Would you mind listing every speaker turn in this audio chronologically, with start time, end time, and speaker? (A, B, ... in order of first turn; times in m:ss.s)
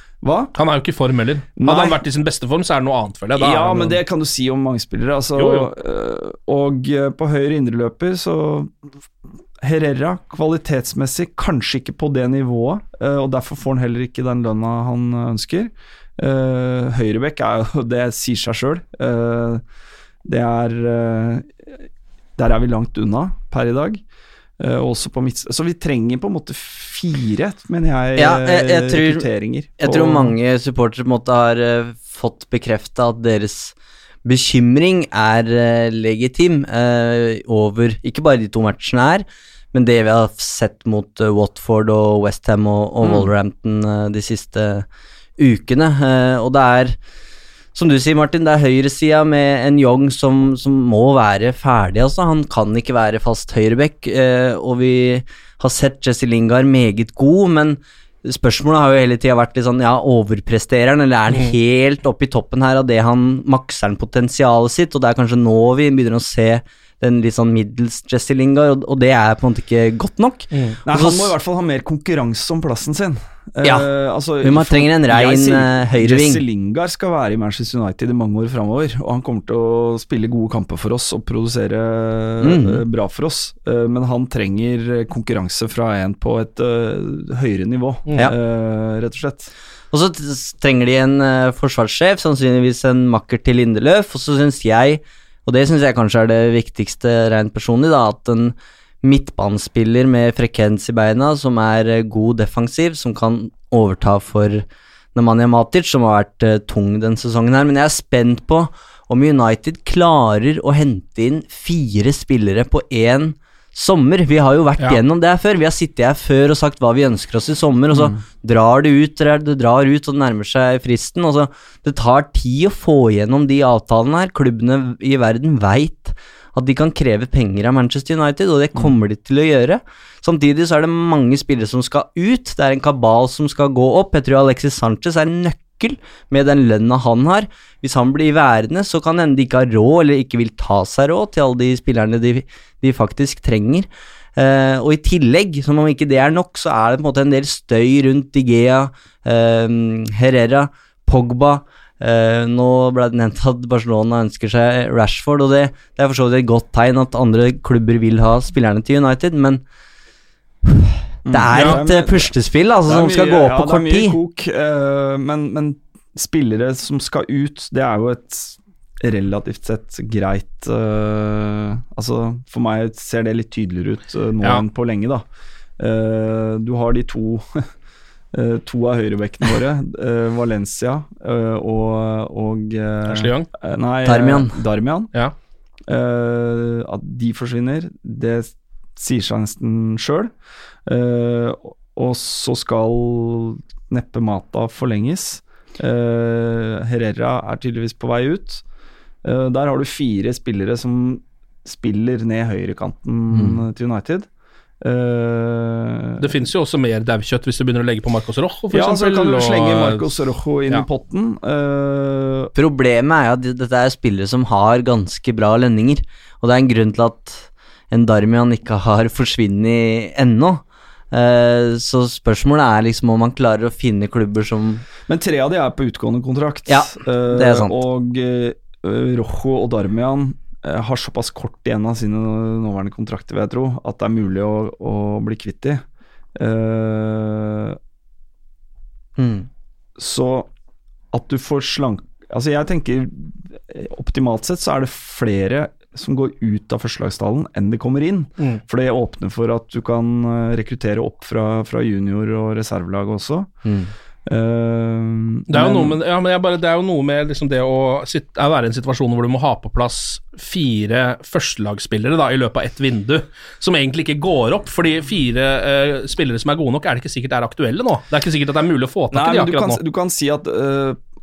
0:00.2-0:00.5 A
0:00.6-0:04.0 B
0:01.6-0:02.0 A
0:03.4-0:08.7 A
0:05.4-0:05.7 B
0:09.6-0:19.6 A
0:20.2-0:21.8 A
0:22.4-0:24.0 A
0:24.6-0:30.3 A
0:28.2-0:29.2 C
0:29.8-0:33.7 C
0:34.2-0:44.8 C
0:45.4-0:47.0 C
0:47.7-1:11.3 C
1:10.5-1:10.8 B
1:10.8-1:29.5 A
1:13.6-1:13.9 C
1:14.4-1:16.4 C
1:22.4-1:22.8 C
1:29.9-2:39.6 C
1:57.9-1:58.2 A
2:40.6-2:44.2 C
2:41.2-2:42.3 A
2:42.8-2:55.2 A
2:55.8-2:57.7 A
2:58.3-3:05.1 A
3:03.1-3:03.5 B
3:04.0-3:04.6 C
3:05.9-3:10.3 A
3:10.8-3:18.6 A
3:19.2-3:24.3 A
3:23.3-3:23.6 C
3:24.8-3:26.3 A
3:26.2-3:30.1 B
3:28.7-3:32.5 A
3:32.5-3:44.8 C
3:45.1-3:55.8 A
3:46.7-3:47.8 C
3:56.4-3:57.8 A
3:59.2-3:59.5 C
4:00.0-4:00.5 A
4:01.1-4:13.5 A
4:13.6-4:13.9 C
4:14.2-4:16.0 A
4:15.5-4:29.8 B
4:29.1-4:31.0 A